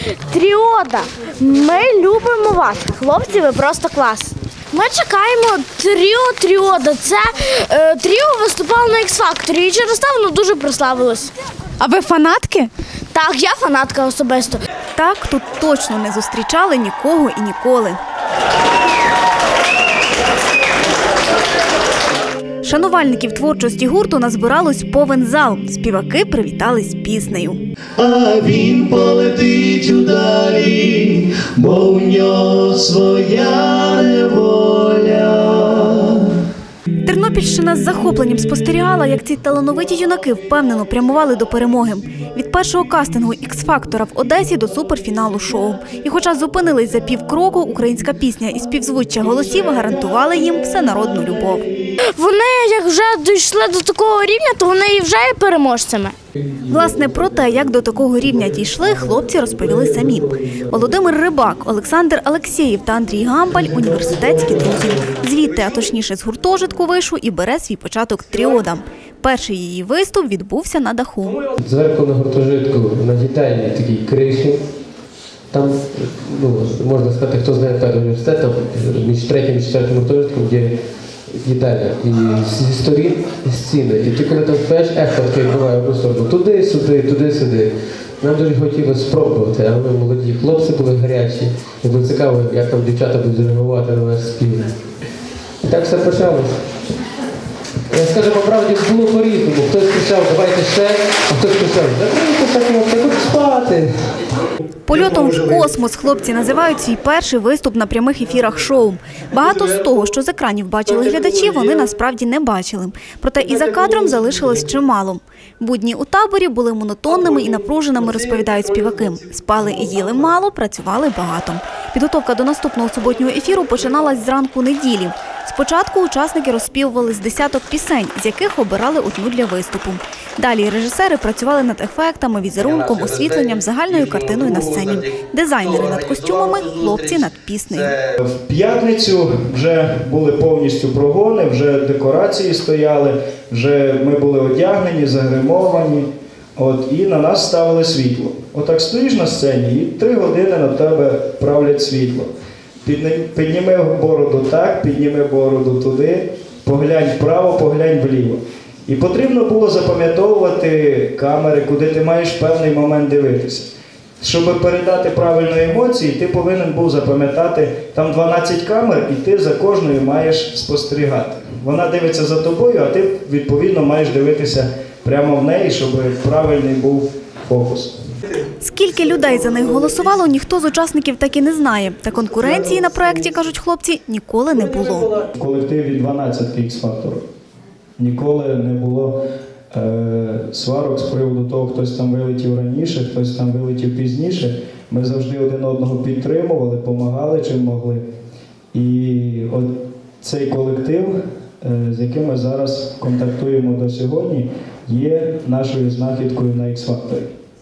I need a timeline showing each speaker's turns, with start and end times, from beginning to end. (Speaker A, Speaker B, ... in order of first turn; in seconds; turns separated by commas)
Speaker A: 0.3-11.3, Speaker B: 11.8-12.7, Speaker A: 13.1-14.6, Speaker B: 14.9-18.0, Speaker B: 22.6-27.6, Speaker C: 27.9-36.3, Speaker B: 37.0-51.7, Speaker A: 52.1-56.1, Speaker B: 56.6-71.4, Speaker D: 71.6-74.6, Speaker D: 75.5-94.8, Speaker D: 95.6-96.7, Speaker D: 97.9-104.2, Speaker B: 104.8-137.9, Speaker C: 132.6-135.0, Speaker C: 135.7-137.1, Speaker E: 138.2-152.3, Speaker E: 152.8-177.9, Speaker B: 178.6-185.2, Speaker E: 185.3-187.2, Speaker E: 188.0-189.2, Speaker E: 189.7-198.0, Speaker E: 198.7-207.3